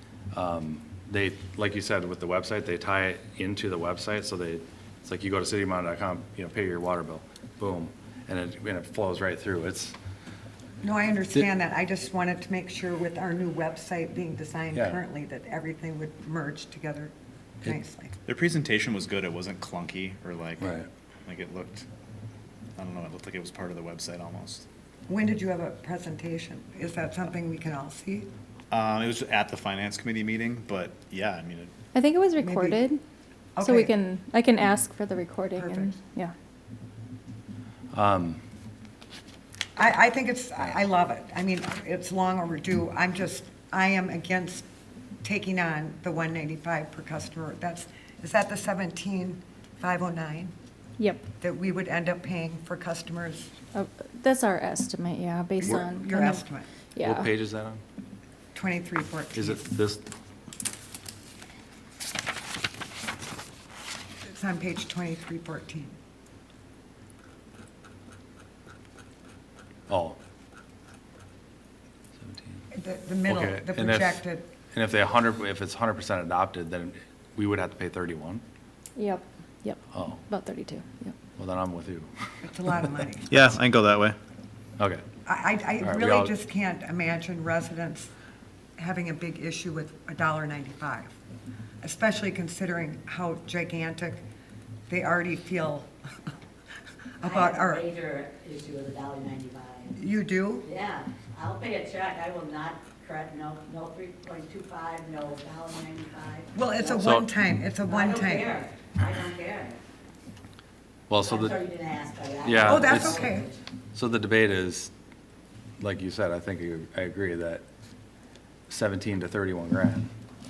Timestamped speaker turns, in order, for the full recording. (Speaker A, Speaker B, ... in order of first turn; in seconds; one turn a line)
Speaker A: 0.3-9.9
Speaker B: 10.8-17.1
Speaker A: 14.7-15.0
Speaker B: 17.6-18.1
Speaker C: 18.2-21.9
Speaker A: 20.6-20.8
Speaker C: 22.8-24.7
Speaker B: 25.1-28.3
Speaker C: 28.7-31.7
Speaker D: 31.9-33.0
Speaker B: 32.4-32.9
Speaker B: 33.6-33.9
Speaker D: 33.6-36.3
Speaker B: 35.6-35.9
Speaker A: 37.9-38.4
Speaker B: 39.8-44.7
Speaker B: 45.2-50.5
Speaker B: 51.4-53.5
Speaker D: 53.7-56.4
Speaker B: 55.6-56.7
Speaker D: 56.9-57.3
Speaker A: 57.0-57.8
Speaker B: 58.5-59.7
Speaker A: 59.3-60.0
Speaker B: 64.2-65.9
Speaker A: 69.9-70.2
Speaker A: 72.2-72.6
Speaker B: 72.7-74.5
Speaker A: 73.2-78.4
Speaker D: 79.0-81.2
Speaker A: 79.9-80.2
Speaker A: 81.4-82.7
Speaker B: 82.4-83.4
Speaker C: 83.3-84.2
Speaker A: 84.8-85.0
Speaker B: 85.2-88.1
Speaker A: 85.8-86.3
Speaker B: 88.8-91.1
Speaker B: 91.8-94.2
Speaker B: 94.9-96.3
Speaker B: 97.2-97.8
Speaker E: 97.2-100.0
Speaker B: 100.0-100.7
Speaker E: 100.6-107.0
Speaker B: 106.5-108.6
Speaker A: 107.0-107.3
Speaker E: 107.8-109.8
Speaker A: 111.1-111.6
Speaker E: 111.2-113.6
Speaker A: 112.4-113.3
Speaker B: 112.6-113.5
Speaker A: 114.0-114.9
Speaker A: 115.8-117.6
Speaker A: 118.7-120.1